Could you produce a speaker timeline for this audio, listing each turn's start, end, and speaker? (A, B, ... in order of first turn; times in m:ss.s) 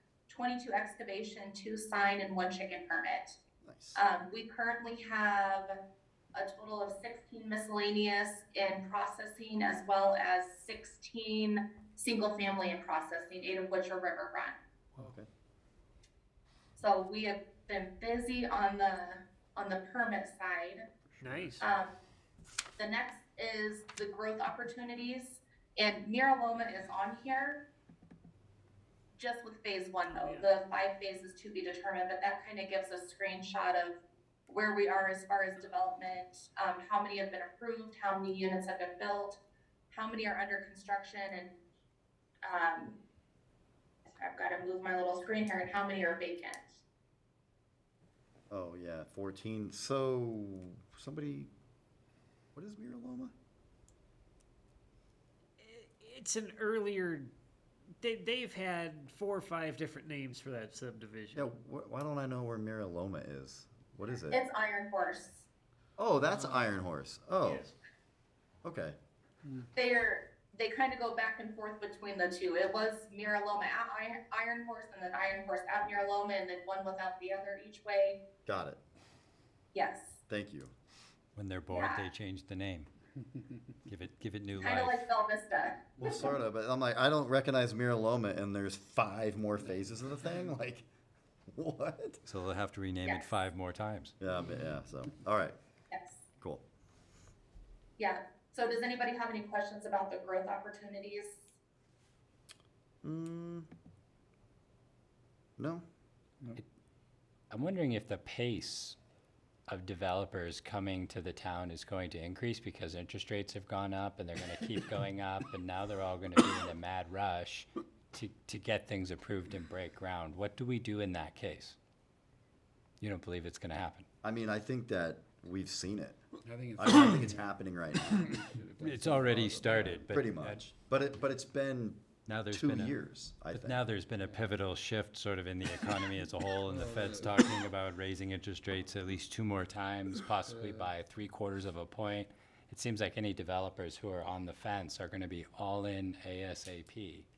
0:00.3-0:03.4 A
0:03.6-0:04.0 B
0:03.9-0:05.8 A
0:06.3-0:14.6 A
0:15.0-0:15.3 B
0:16.8-0:20.8 A
0:21.2-0:21.6 C
0:21.6-0:21.9 A
0:22.8-0:27.6 A
0:29.2-0:39.4 A
0:39.9-0:41.5 A
0:42.4-0:43.0 A
0:44.1-0:46.8 A
0:48.5-0:51.5 B
0:52.5-0:53.3 B
0:55.6-0:57.3 C
0:58.0-1:01.5 C
1:01.4-1:04.4 B
1:04.3-1:05.5 A
1:06.0-1:07.7 B
1:08.6-1:09.0 B
1:09.7-1:18.2 A
1:18.4-1:18.8 B
1:19.7-1:20.2 A
1:20.3-1:20.7 B
1:21.3-1:22.9 D
1:21.7-1:22.1 A
1:23.8-1:25.0 D
1:24.6-1:26.3 A
1:26.0-1:30.9 B
1:31.5-1:32.2 B
1:32.2-1:34.2 D
1:34.2-1:35.6 B
1:35.9-1:36.2 A
1:38.0-1:41.4 A
1:43.0-1:43.7 B
1:45.6-1:45.8 B
1:47.5-1:49.0 D
1:49.7-2:01.8 D
2:03.0-2:04.0 D
2:04.2-2:06.2 B
2:06.5-2:07.5 E
2:06.8-2:08.4 B
2:08.2-2:09.9 E
2:08.8-2:10.6 D
2:09.6-2:13.8 B
2:12.2-2:13.0 D
2:13.5-2:27.2 D
2:16.7-2:17.3 E